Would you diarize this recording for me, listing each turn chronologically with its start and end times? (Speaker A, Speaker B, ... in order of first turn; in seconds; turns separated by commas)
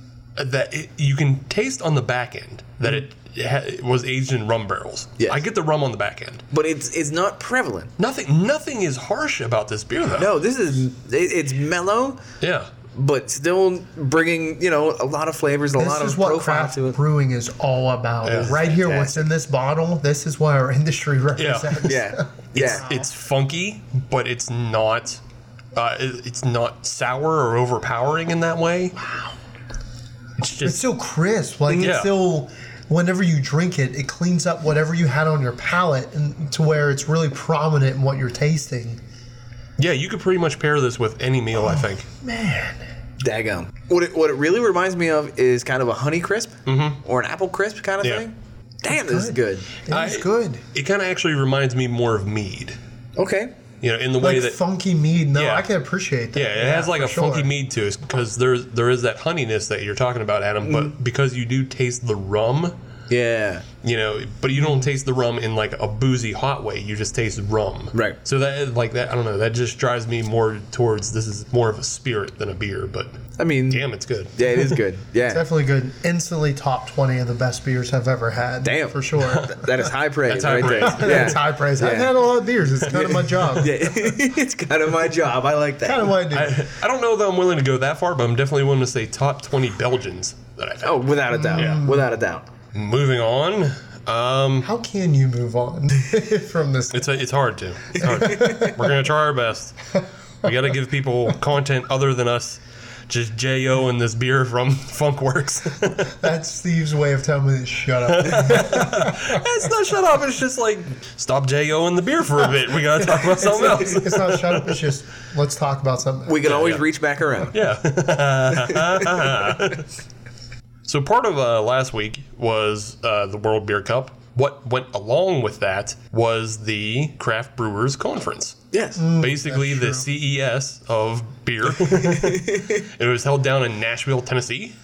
Speaker A: 0.4-6.4, Speaker B: 6.5-7.9, Speaker A: 8.0-10.3, Speaker B: 10.1-12.2, Speaker A: 12.4-12.7, Speaker B: 12.9-17.0, Speaker C: 15.8-23.0, Speaker A: 18.2-18.6, Speaker B: 18.5-19.2, Speaker A: 21.4-21.9, Speaker B: 21.8-22.8, Speaker A: 22.5-25.2, Speaker A: 25.7-28.9, Speaker A: 30.4-30.8, Speaker C: 30.6-39.0, Speaker A: 31.7-32.1, Speaker A: 39.8-42.0, Speaker C: 41.5-42.8, Speaker B: 43.2-49.7, Speaker A: 46.6-47.0, Speaker C: 48.9-50.6, Speaker A: 49.9-52.8, Speaker B: 53.2-53.5, Speaker A: 53.8-54.6, Speaker C: 54.2-57.5, Speaker A: 55.3-55.7, Speaker A: 56.3-62.7, Speaker B: 60.6-60.9, Speaker B: 63.1-63.6, Speaker A: 63.8-74.3, Speaker B: 67.9-68.2, Speaker B: 73.4-75.4, Speaker C: 75.2-79.7, Speaker B: 78.6-82.1, Speaker A: 80.3-81.4, Speaker C: 80.6-83.9, Speaker A: 82.9-83.5, Speaker B: 83.5-86.1, Speaker C: 85.8-86.6, Speaker A: 86.3-91.0, Speaker B: 90.8-92.5, Speaker C: 91.3-92.0, Speaker A: 92.7-94.7, Speaker C: 94.6-97.1, Speaker A: 96.9-106.1, Speaker C: 98.0-98.7, Speaker B: 98.3-98.7, Speaker C: 106.1-109.4, Speaker A: 108.1-114.8, Speaker C: 113.0-116.5, Speaker B: 116.2-117.5, Speaker A: 116.4-116.8, Speaker A: 117.5-119.9, Speaker B: 118.6-119.2, Speaker A: 120.8-128.6, Speaker B: 128.7-129.0, Speaker C: 129.0-130.1, Speaker A: 129.2-134.7, Speaker B: 132.0-132.8